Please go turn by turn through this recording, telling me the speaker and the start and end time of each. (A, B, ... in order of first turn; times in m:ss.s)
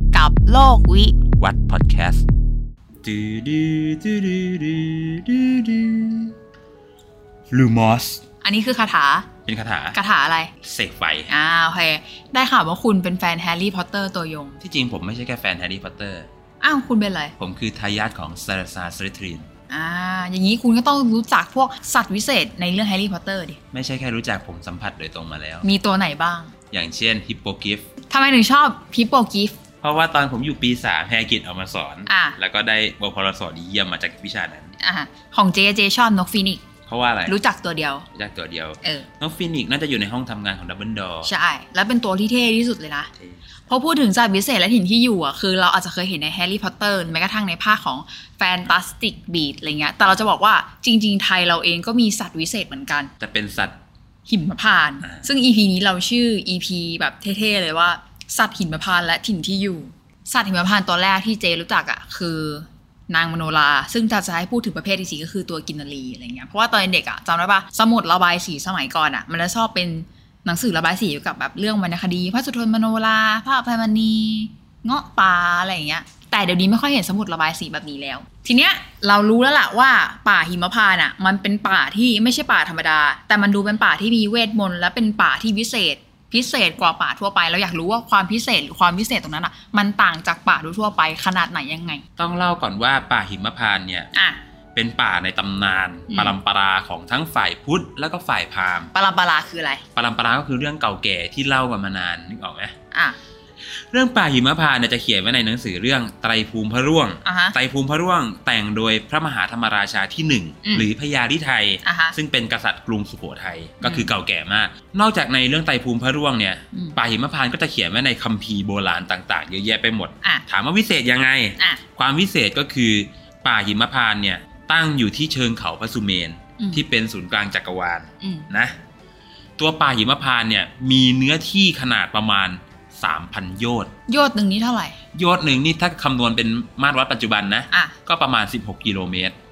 0:00.1-0:01.2 A
0:01.4-0:02.2 B
0:03.0-0:06.3 B
0:07.5-0:08.2 B
0:08.4-0:09.3 A
0:09.5-0:10.0 B
0:09.9-0:10.5 A
0:10.6-0:11.3 B
0:11.3-0:14.6 A
0:14.6-0:16.3 B
0:16.6-0:17.3 A
0:17.4-0:19.5 B
0:19.7-0:23.6 A
0:23.7-0:25.7 B
0:25.6-0:26.5 A
0:26.7-0:27.8 B
0:28.1-0:29.6 A
0:29.8-0:34.7 B
0:32.0-0:32.4 A
0:34.8-0:36.6 A
0:36.9-0:37.3 B
0:37.3-0:38.1 A
0:38.1-0:41.3 B
0:41.2-0:43.1 A
0:43.7-0:53.1 A
0:53.2-0:53.8 B
0:54.3-1:32.0 A
1:32.2-1:34.1 B
1:34.1-1:34.4 A
1:34.7-1:38.9 B
1:36.1-1:36.3 A
1:38.9-1:39.8 A
1:39.9-1:42.7 B
1:42.9-1:43.2 A
1:43.7-2:08.8 B
1:47.2-1:47.6 A
1:51.8-1:52.2 A
1:53.8-1:54.1 A
2:06.6-2:06.8 A
2:08.2-2:08.5 A
2:09.6-2:13.9 B
2:14.1-2:15.0 A
2:15.1-2:19.3 B
2:17.7-2:18.0 A